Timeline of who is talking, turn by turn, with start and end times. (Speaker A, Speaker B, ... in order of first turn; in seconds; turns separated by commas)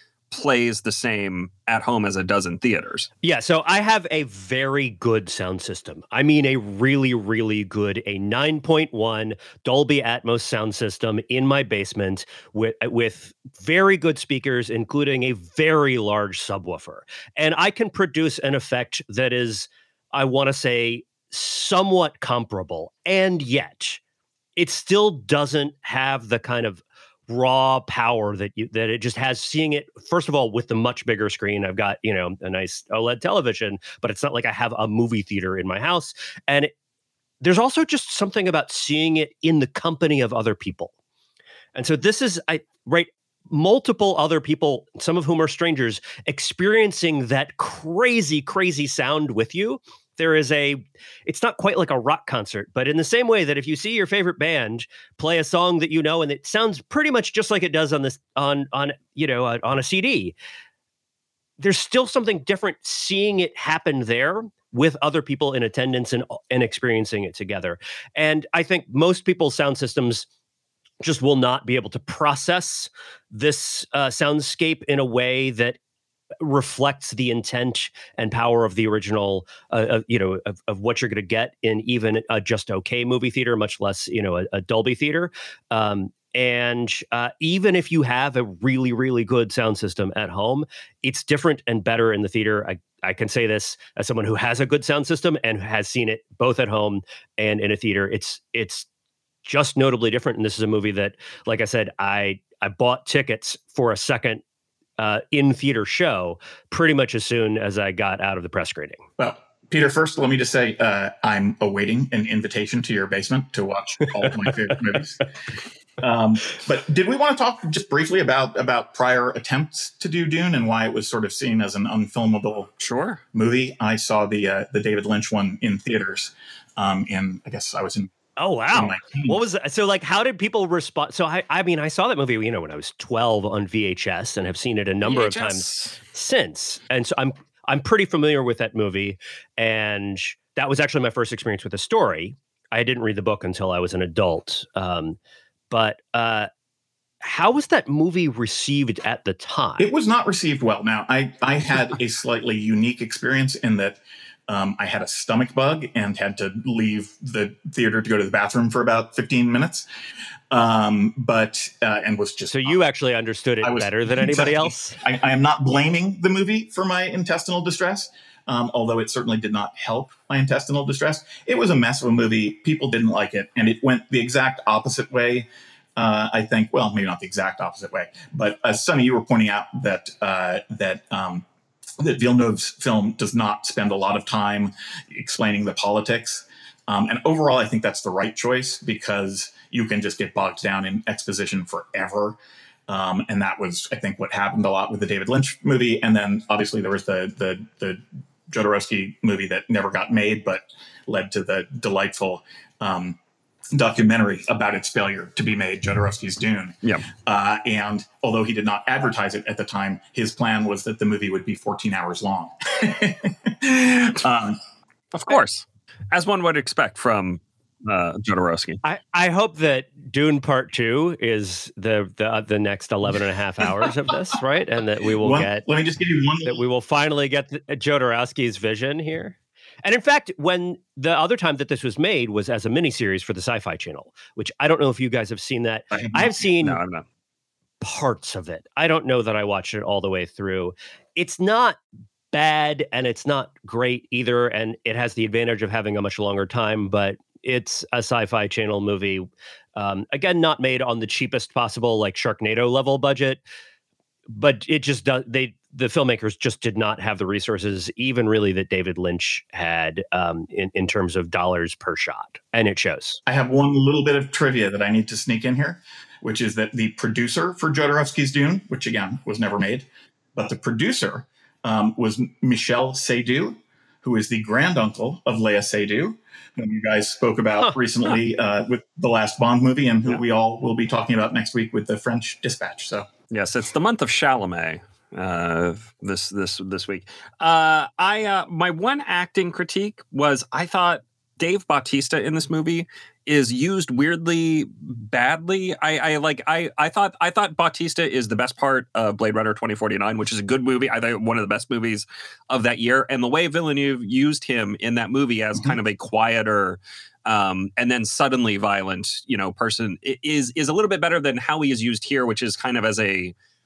Speaker A: 0.3-3.1, Speaker B: 3.2-24.0, Speaker B: 24.6-36.7, Speaker B: 37.4-40.9, Speaker B: 41.8-60.4, Speaker B: 61.6-70.3, Speaker B: 71.0-75.8, Speaker B: 76.4-98.9, Speaker B: 99.5-104.4, Speaker B: 105.0-109.0, Speaker C: 109.2-115.2, Speaker C: 116.0-122.7, Speaker A: 122.8-123.2, Speaker C: 123.3-128.1, Speaker B: 128.4-145.2, Speaker C: 128.7-129.4, Speaker A: 135.0-136.0, Speaker B: 145.7-146.5, Speaker B: 147.2-149.9, Speaker C: 149.8-159.9, Speaker C: 160.5-162.8, Speaker B: 162.5-165.0, Speaker C: 163.6-181.4, Speaker C: 182.0-203.2, Speaker C: 203.7-214.6, Speaker A: 215.1-218.8, Speaker B: 218.8-225.7, Speaker C: 225.2-226.6, Speaker B: 226.4-236.8, Speaker C: 235.9-236.5, Speaker A: 236.6-237.1, Speaker B: 237.8-241.8, Speaker B: 242.3-253.4, Speaker B: 254.3-263.2, Speaker C: 263.3-283.1, Speaker A: 283.3-313.3